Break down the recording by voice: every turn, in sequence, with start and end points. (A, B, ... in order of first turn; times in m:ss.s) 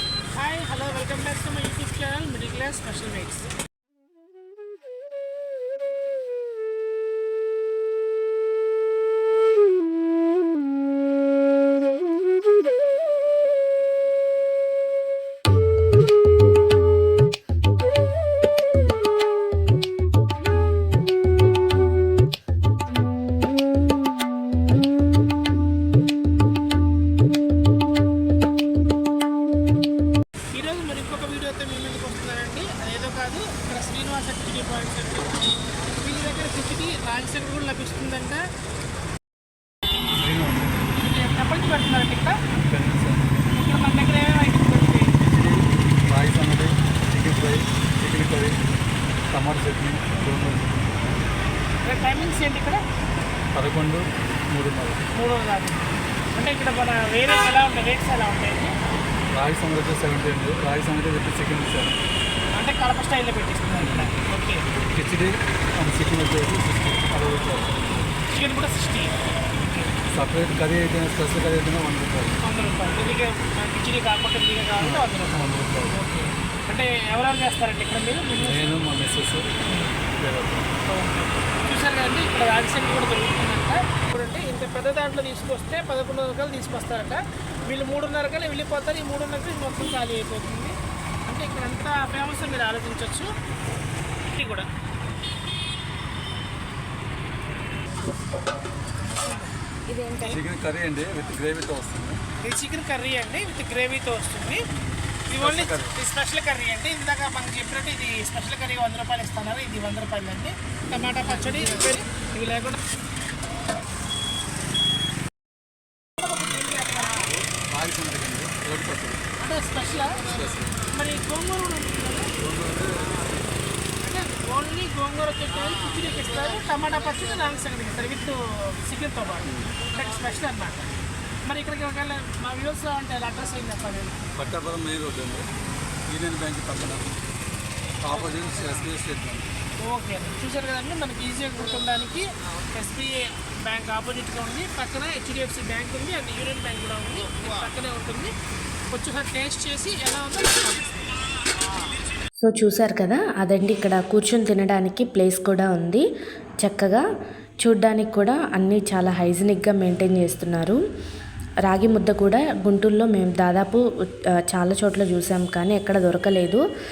0:00.3-0:03.5 A
0:30.5-0:35.3 A
0:36.0-0:38.4 A
0:40.1-0:40.9 B
0:41.0-0:42.4 A
0:42.6-0:43.4 B
0:43.5-0:45.2 A
0:45.3-0:48.6 B
0:49.3-0:50.8 B
0:51.8-0:52.8 A
0:53.5-0:55.0 B
0:55.1-0:58.8 A
0:59.3-1:02.0 B
1:02.5-1:04.6 A
1:03.8-1:04.1 B
1:04.9-1:07.8 B
1:08.3-1:09.9 A
1:10.1-1:12.4 B
1:12.4-1:18.8 A
1:14.8-1:16.0 B
1:18.4-1:19.6 B
1:19.6-1:19.9 A
1:20.2-1:20.7 B
1:20.9-1:33.3 A
1:34.3-1:34.7 A
1:39.1-1:40.4 A
1:40.2-1:42.2 B
1:42.4-1:44.6 A
1:45.3-1:52.8 A
1:45.3-1:45.9 B
1:56.4-1:57.3 A
1:57.5-1:59.2 B
1:59.4-2:00.2 A
2:00.3-2:00.7 B
2:00.8-2:02.3 A
2:02.4-2:03.2 B
2:04.0-2:10.9 A
2:11.4-2:14.2 A
2:14.4-2:15.4 B
2:16.1-2:17.0 B
2:18.0-2:19.5 B
2:19.8-2:28.3 A
2:28.9-2:31.1 A
2:32.4-2:36.1 C
2:36.6-2:37.0 C
2:37.6-2:40.8 C
2:41.6-2:43.8 C
2:44.4-2:46.6 C